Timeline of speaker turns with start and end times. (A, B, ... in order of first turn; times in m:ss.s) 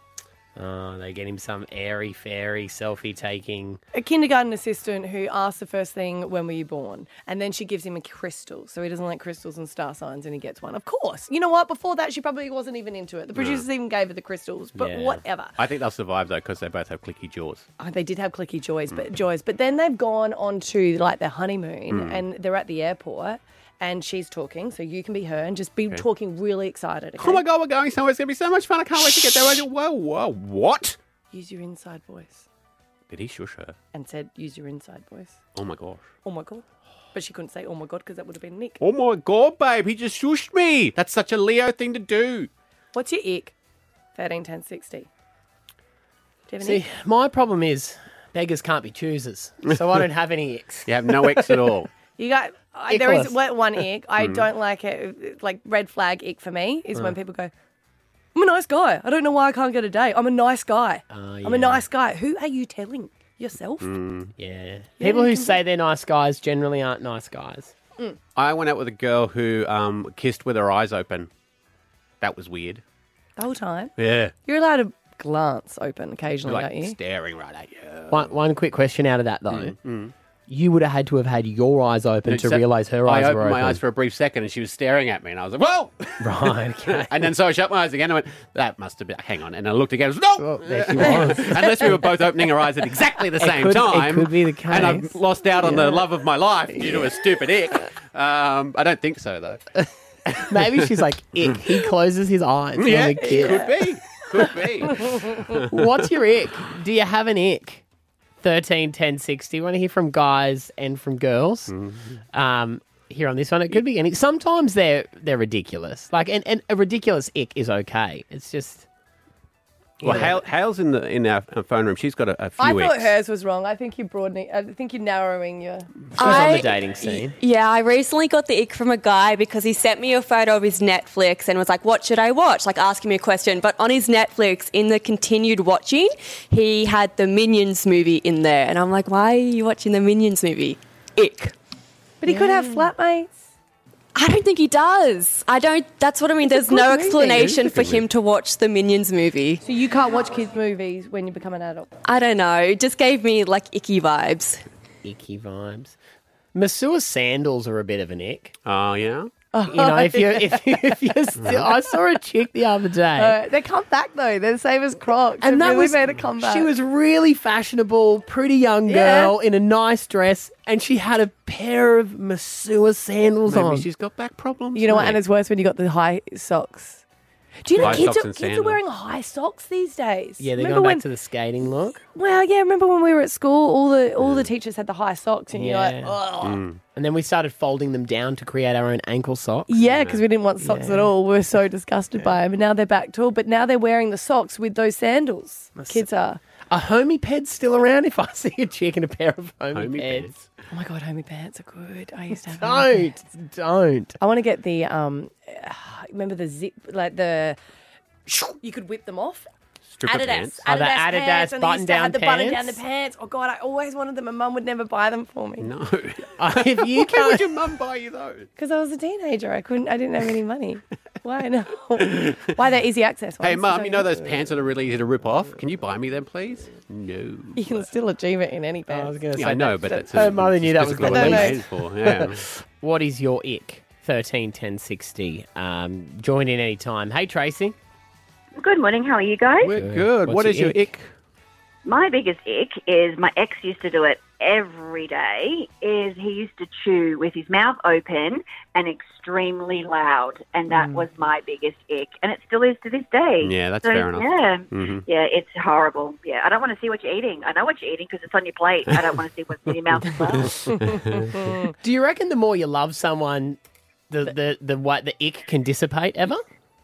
0:00.6-0:03.8 A
0:03.9-0:15.5 B
0:13.3-0:13.6 C
0:14.8-0:15.2 A
0:15.6-0:17.6 C
0:17.8-0:27.4 B
0:21.9-0:22.2 C
0:27.2-0:31.0 C
0:31.3-0:32.4 B
0:33.1-0:33.7 C
0:33.9-0:35.4 B
0:35.6-0:36.0 C
0:36.2-0:38.8 B
0:38.8-0:42.5 C
0:42.9-0:43.5 B
0:44.2-0:45.1 B
0:46.5-0:46.8 B
0:46.6-0:51.7 A
0:50.8-0:51.9 C
0:52.2-0:57.5 B
0:52.9-0:53.3 A
0:54.2-0:54.4 C
0:58.3-1:03.9 B
1:01.1-1:01.8 A
1:03.8-1:04.3 C
1:04.4-1:07.7 A
1:05.0-1:05.6 B
1:08.4-1:11.3 C
1:12.2-1:12.8 C
1:13.4-1:13.9 B
1:14.0-1:14.3 C
1:14.4-1:17.0 B
1:16.4-1:18.3 C
1:18.1-1:19.8 A
1:19.5-1:20.1 C
1:20.5-1:23.8 A
1:22.3-1:26.2 C
1:26.2-1:27.2 A
1:26.9-1:39.6 C
1:30.4-1:31.9 A
1:33.4-1:36.0 A
1:40.3-1:43.7 A
1:42.8-1:45.8 C
1:45.7-1:47.8 A
1:48.4-1:51.7 A
1:51.7-1:52.2 C
1:52.3-1:58.8 A
2:00.0-2:03.1 C
2:00.0-2:00.4 A
2:02.6-2:06.6 B
2:06.2-2:07.3 A
2:06.2-2:21.5 D
2:22.2-2:23.3 B
2:24.1-2:29.6 D
2:26.4-2:27.6 B
2:27.4-2:28.0 C
2:29.6-2:31.9 B
2:32.0-2:34.6 D
2:35.0-2:36.0 A
2:36.5-2:38.5 A
2:38.6-2:39.3 C
2:39.5-2:41.5 B
2:39.7-2:43.4 A
2:41.4-2:41.7 C
2:43.2-2:46.7 B
2:45.4-2:53.9 A
2:48.9-2:49.3 B
2:53.5-2:55.2 C
2:54.7-2:57.0 B
2:57.6-3:01.0 B
2:57.8-2:58.8 C
2:57.8-2:58.0 A
3:00.4-3:02.0 A
3:02.0-3:06.6 B
3:04.2-3:04.5 C
3:05.5-3:06.1 A
3:06.4-3:06.8 C
3:06.9-3:09.7 A
3:09.7-3:16.4 B
3:09.8-3:10.2 C
3:10.6-3:11.1 A
3:15.8-3:16.0 A
3:16.7-3:20.3 A
3:19.7-3:20.4 C
3:20.7-3:23.1 B
3:22.6-3:24.2 A
3:24.2-3:27.6 B
3:28.3-3:29.5 B
3:29.9-3:30.6 C
3:30.0-3:35.7 B
3:30.7-3:32.8 A
3:35.6-3:38.5 C
3:36.4-3:37.5 A
3:38.6-3:44.3 B
3:42.0-3:42.5 C
3:43.4-3:47.8 C
3:47.6-3:49.2 B
3:48.9-3:57.8 A
3:49.3-3:52.4 C
3:49.8-3:50.3 B
3:51.0-3:51.6 B
3:58.6-3:59.7 E
3:59.6-4:01.0 C
3:59.7-4:00.8 A
4:01.8-4:20.6 E
4:13.4-4:15.0 C
4:20.6-4:21.4 C
4:21.8-4:23.6 A
4:24.1-4:26.4 A